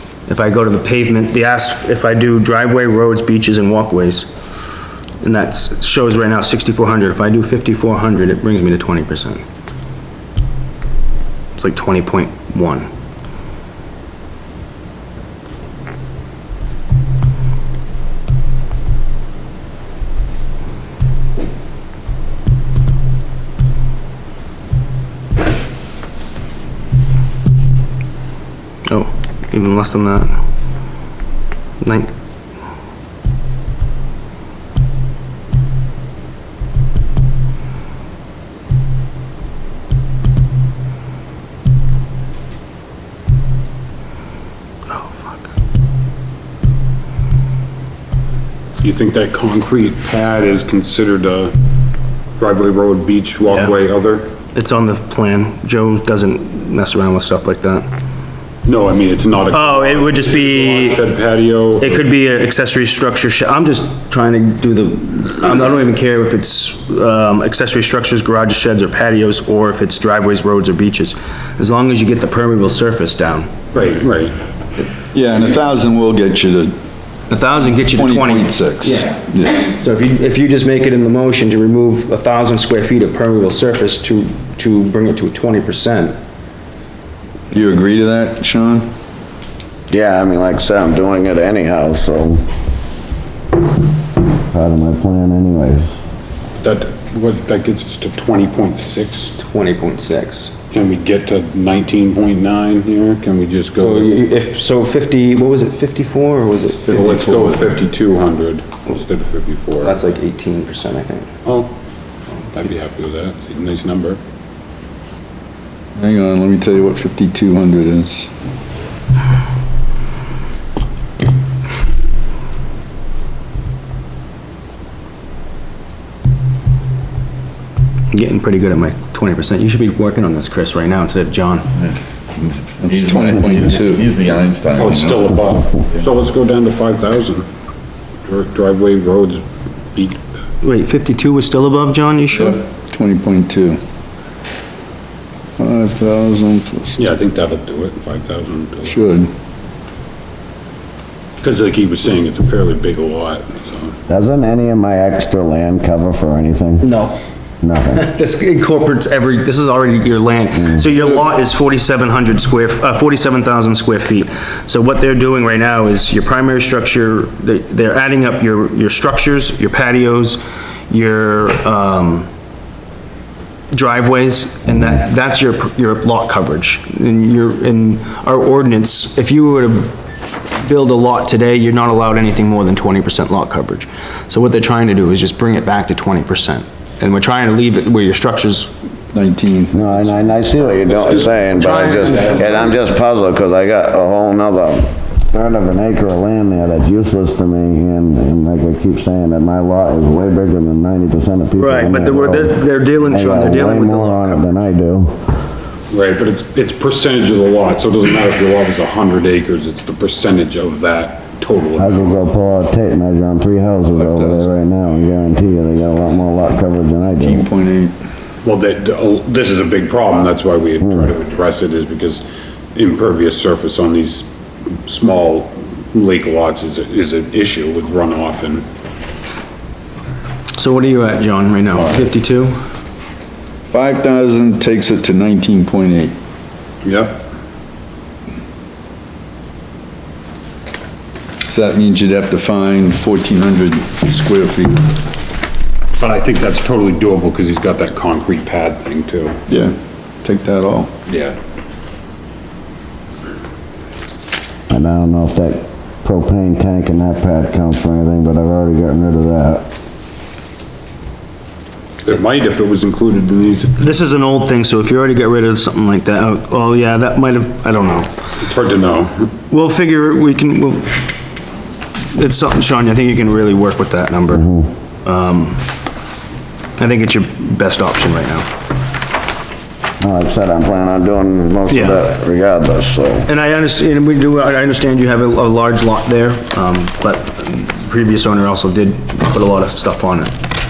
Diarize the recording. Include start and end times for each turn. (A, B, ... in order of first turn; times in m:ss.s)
0:00.3-0:04.3 A
0:05.2-0:09.4 A
0:11.6-0:12.9 A
0:28.9-0:30.4 A
0:31.8-0:32.1 A
0:44.9-0:45.4 A
0:48.8-0:51.5 B
0:52.4-0:54.3 B
0:54.5-0:57.9 A
0:58.6-1:02.0 B
0:59.5-1:01.0 A
1:01.8-1:13.6 A
1:13.7-1:14.4 B
1:15.1-1:16.7 C
1:17.3-1:26.2 A
1:17.6-1:19.6 C
1:27.5-1:28.9 C
1:29.9-1:32.5 D
1:34.4-1:35.9 D
1:36.6-1:39.3 B
1:39.4-1:40.6 A
1:40.7-1:44.1 B
1:43.8-1:47.4 A
1:46.9-1:49.9 B
1:47.0-1:47.7 C
1:49.8-1:51.3 A
1:51.4-1:51.7 B
1:52.5-1:54.2 B
1:55.9-1:58.3 C
2:08.1-2:11.7 A
2:12.8-2:15.2 E
2:12.8-2:14.2 C
2:14.8-2:17.5 B
2:18.2-2:20.2 B
2:20.6-2:22.6 A
2:22.3-2:23.8 C
2:25.6-2:27.0 C
2:27.0-2:29.0 B
2:28.8-2:29.3 C
2:31.4-2:34.0 B
2:34.1-2:36.9 D
2:36.8-2:37.2 A
2:37.6-2:38.1 D
2:37.9-2:52.3 A
2:53.7-2:59.9 A
3:00.5-3:08.8 A
3:09.1-3:10.3 C
3:09.7-3:25.2 D
3:10.7-3:12.8 B
3:11.4-3:12.7 A
3:21.6-3:24.5 A
3:25.9-3:32.2 B
3:31.8-3:37.4 D
3:34.0-3:34.5 C
3:37.2-3:37.9 C
3:38.4-3:44.3 B
3:40.8-3:41.1 D
3:44.8-3:48.6 B
3:50.6-3:52.6 A
3:53.7-3:56.2 C
3:56.8-3:57.2 B
4:01.4-4:04.9 C
4:06.0-4:09.4 B
4:09.5-4:10.9 C
4:11.1-4:11.4 B
4:14.7-4:19.7 D
4:22.0-4:23.8 B
4:23.8-4:28.1 A
4:28.4-4:29.3 B
4:29.5-4:30.9 A
4:32.1-4:34.4 A
4:34.3-4:34.7 D
4:35.0-4:35.6 A
4:36.8-4:38.5 A
4:40.0-4:43.3 D
4:41.7-4:42.0 A
4:43.2-4:50.3 A